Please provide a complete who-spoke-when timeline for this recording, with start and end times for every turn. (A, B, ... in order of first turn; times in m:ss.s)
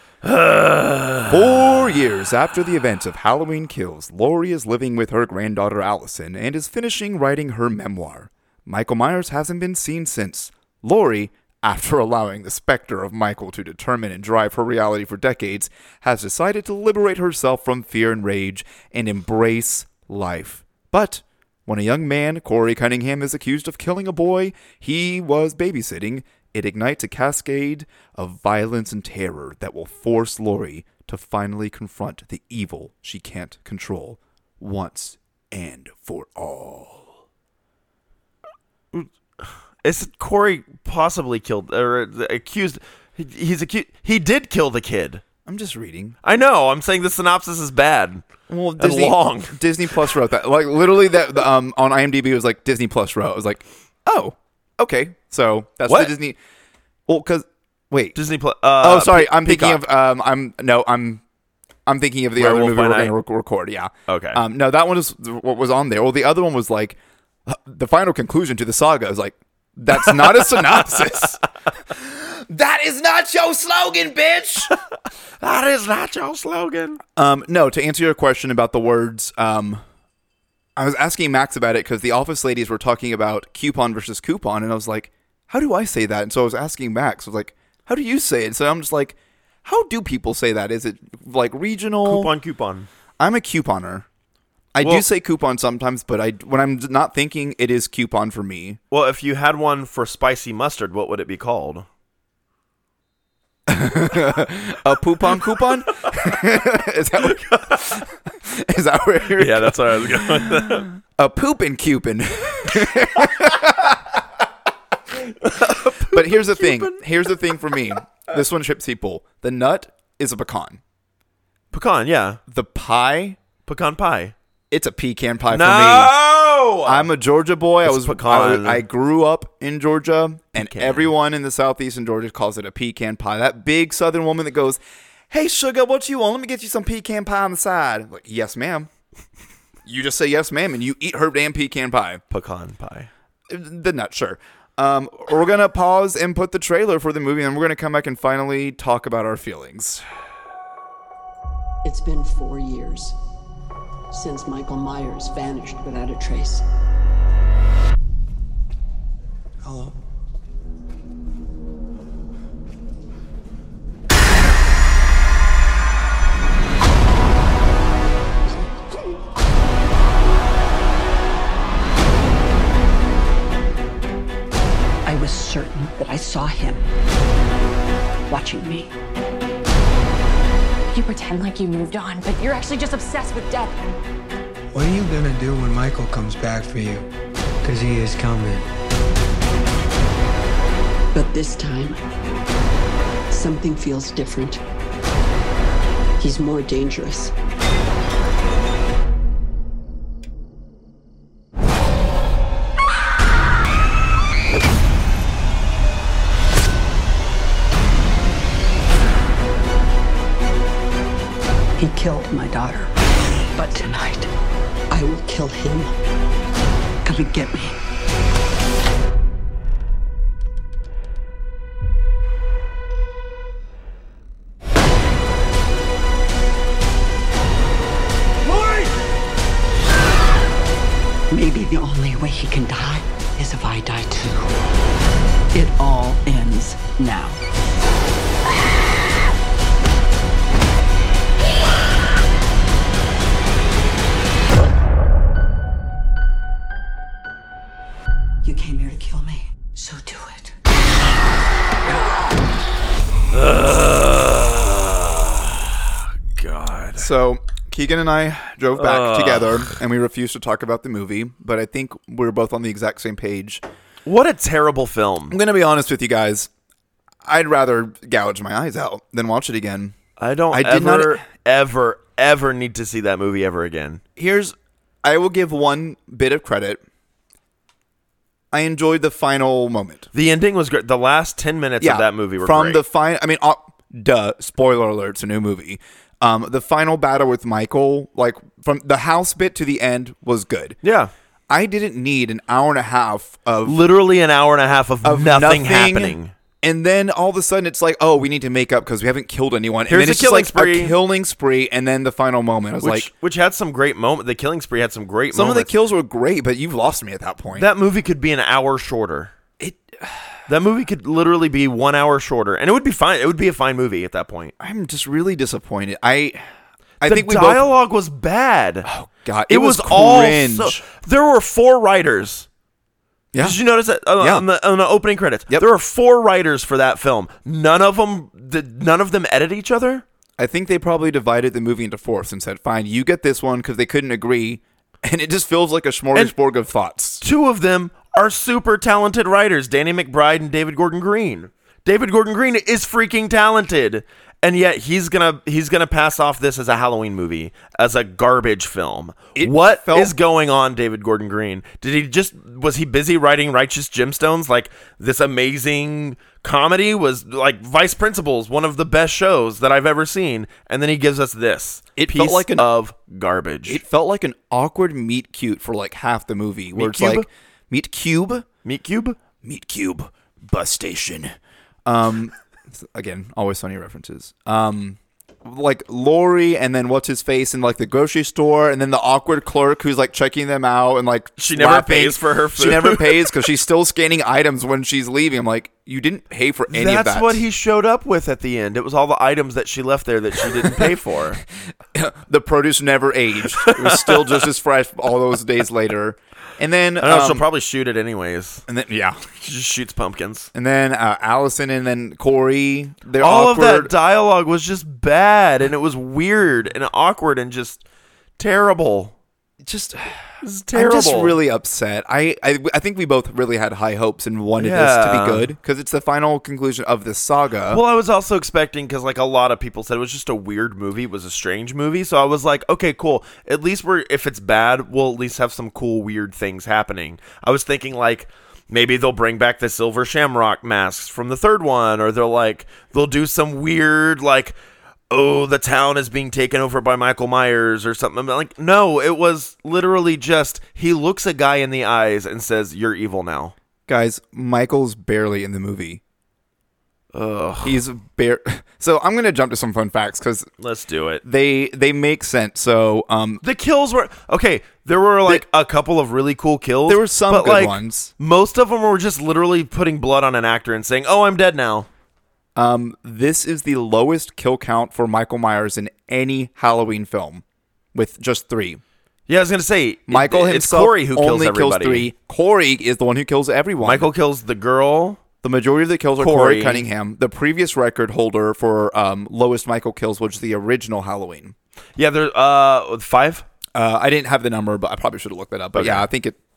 0:00.2-0:01.8 A
0:01.3-0:37.2 B
0:38.9-0:45.2 A
0:45.4-0:46.2 B
0:46.2-0:49.6 A
0:48.5-0:56.4 B
0:55.9-0:56.1 A
0:57.1-0:58.2 B
0:58.1-0:59.8 A
0:58.8-1:01.2 B
1:01.8-1:14.7 B
1:02.4-1:03.2 A
1:04.1-1:04.4 A
1:15.4-1:17.0 A
1:17.2-1:19.8 B
1:20.8-1:32.3 B
1:32.0-1:32.9 A
1:33.2-1:34.0 B
1:34.7-1:38.8 B
1:34.8-1:35.0 A
1:38.9-1:41.8 A
1:43.7-1:54.2 B
1:47.2-1:48.0 A
1:49.3-1:50.9 A
1:55.2-1:57.0 A
1:56.0-2:00.8 B
2:01.7-2:02.4 A
2:02.5-2:03.4 B
2:03.6-2:04.3 A
2:04.7-2:06.1 B
2:05.5-2:07.1 A
2:06.8-2:14.8 B
2:07.8-2:08.8 A
2:10.6-2:11.1 A
2:15.3-2:18.9 B
2:19.8-2:22.2 B
2:22.3-2:23.1 A
2:23.5-2:30.0 B
2:31.8-2:33.2 C
2:34.1-2:36.6 C
2:39.6-2:39.9 D
2:55.0-2:56.8 C
2:58.3-2:58.9 C
3:00.9-3:03.8 E
3:04.7-3:07.0 D
3:07.6-3:08.7 D
3:11.1-3:12.0 C
3:13.3-3:14.6 C
3:16.2-3:17.3 C
3:31.8-3:32.9 C
3:33.5-3:34.3 C
3:34.9-3:35.9 C
3:37.0-3:37.8 C
3:51.3-3:54.5 C
3:55.5-3:57.4 C
4:08.4-4:10.5 C
4:13.3-4:17.1 A
4:17.0-4:23.6 B
4:18.7-4:19.7 A
4:24.0-4:25.4 A
4:25.3-4:26.5 B
4:27.2-4:30.0 B
4:30.2-4:34.0 A
4:30.5-4:31.2 B
4:34.2-4:36.8 B
4:38.5-4:40.1 B
4:40.1-4:42.8 A
4:41.8-4:50.8 B
4:50.8-4:51.1 A
4:51.5-4:53.8 B
4:53.6-4:56.3 A
4:55.0-5:03.1 B
4:59.9-5:01.0 A
5:02.8-5:05.7 A
5:05.3-5:07.7 B
5:07.5-5:09.3 A
5:09.6-5:10.4 B
5:10.5-5:14.5 A
5:14.6-5:16.4 B
5:17.0-5:17.7 B
5:17.0-5:18.9 A
5:18.8-5:20.8 B
5:19.5-5:22.5 A
5:23.3-5:23.6 B
5:23.4-5:30.0 A
5:24.2-5:24.4 B
5:30.4-5:37.2 B
5:37.2-6:03.8 A
5:49.4-5:50.1 B
6:02.0-6:02.7 B
6:03.6-6:08.4 B
6:06.7-6:07.2 A
6:08.6-6:09.2 A
6:09.4-6:11.3 B
6:11.8-6:27.4 B
6:21.4-6:23.4 A
6:26.7-6:31.4 A
6:30.5-6:30.9 B
6:31.9-6:37.4 B
6:33.6-6:34.4 A
6:37.0-6:38.6 A
6:38.7-6:39.3 B
6:39.4-6:40.5 A
6:40.5-6:43.9 B
6:43.2-6:47.8 A
6:48.4-6:49.1 A
6:49.6-6:57.8 B
6:50.4-6:51.4 A
6:54.6-6:55.5 A
6:57.7-7:14.5 A
7:15.1-7:23.5 A
7:23.9-7:26.0 B
7:27.1-7:27.8 A
7:27.6-7:30.5 B
7:30.6-7:31.2 A
7:31.2-7:33.4 B
7:33.4-7:41.9 A
7:36.9-7:38.1 B
7:42.6-7:48.8 B
7:49.3-7:52.1 A
7:50.1-7:54.1 B
7:53.8-7:55.2 A
7:55.4-8:01.5 B
7:56.2-7:56.9 A
8:02.0-8:03.5 A
8:03.7-8:06.4 B
8:05.7-8:06.1 A